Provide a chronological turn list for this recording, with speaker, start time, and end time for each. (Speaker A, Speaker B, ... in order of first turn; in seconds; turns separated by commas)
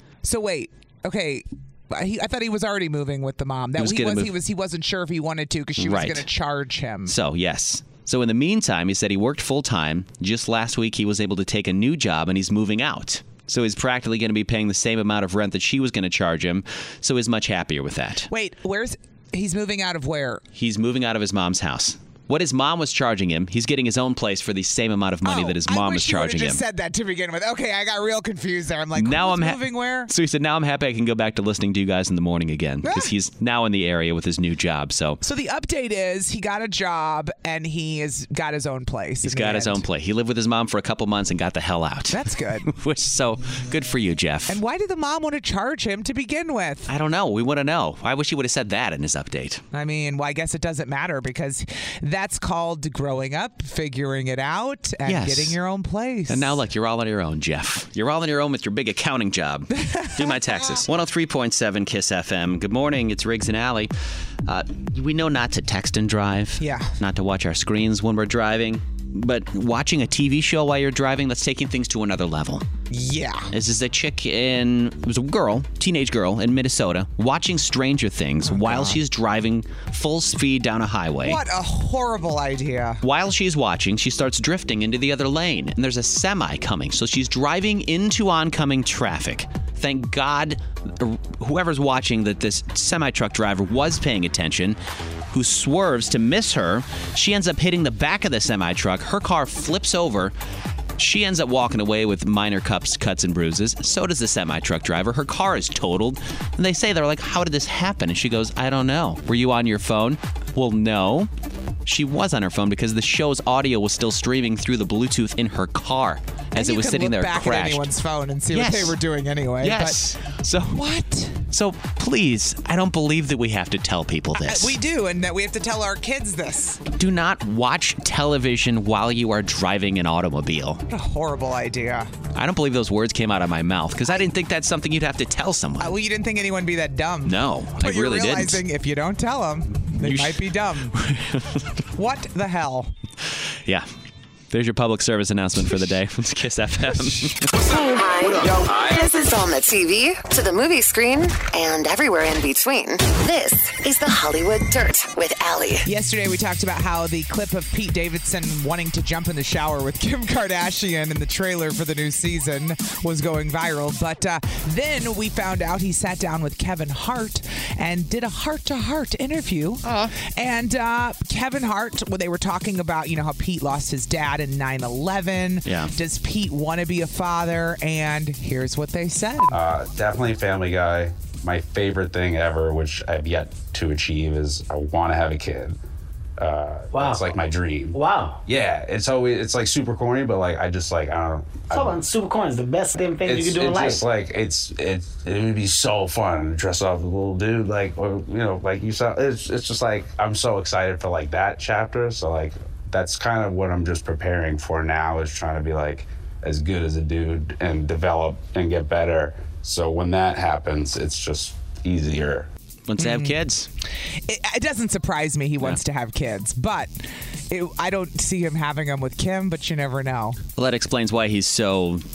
Speaker A: 0.2-7.2, Speaker B: 3.8-4.3, Speaker B: 5.8-6.3, Speaker B: 7.1-18.3, Speaker A: 18.3-20.4, Speaker B: 20.6-26.6, Speaker A: 25.2-30.1, Speaker B: 29.0-35.2, Speaker A: 32.8-33.1, Speaker A: 35.2-39.8, Speaker B: 39.2-44.6, Speaker A: 42.1-42.7, Speaker A: 44.5-46.9, Speaker B: 46.9-49.6, Speaker A: 49.7-56.6, Speaker B: 55.0-55.6, Speaker B: 56.3-63.9, Speaker A: 59.7-60.9, Speaker B: 64.5-72.7, Speaker A: 66.6-67.0, Speaker A: 72.9-73.5, Speaker B: 73.5-81.4, Speaker A: 78.4-79.0, Speaker A: 81.2-83.0, Speaker B: 83.0-94.8, Speaker B: 95.3-100.3, Speaker B: 101.0-111.3, Speaker B: 111.9-117.9, Speaker A: 116.5-120.0, Speaker B: 118.5-119.0, Speaker B: 119.6-120.8, Speaker A: 120.7-121.5, Speaker B: 121.5-124.8, Speaker A: 124.4-126.8, Speaker B: 127.0-130.8, Speaker A: 130.9-132.1, Speaker B: 132.3-135.9, Speaker A: 135.8-140.9, Speaker B: 137.3-138.6, Speaker B: 140.0-141.7, Speaker A: 141.9-142.9, Speaker B: 144.5-147.5, Speaker C: 147.6-155.9, Speaker A: 155.8-179.6, Speaker B: 169.8-170.1, Speaker B: 175.7-175.9, Speaker D: 179.5-185.8, Speaker D: 186.4-192.0, Speaker E: 186.9-187.2, Speaker E: 187.9-188.4, Speaker E: 191.7-194.0, Speaker D: 193.2-212.5, Speaker B: 212.9-213.7, Speaker A: 213.0-213.4, Speaker A: 214.1-220.4, Speaker B: 220.6-222.0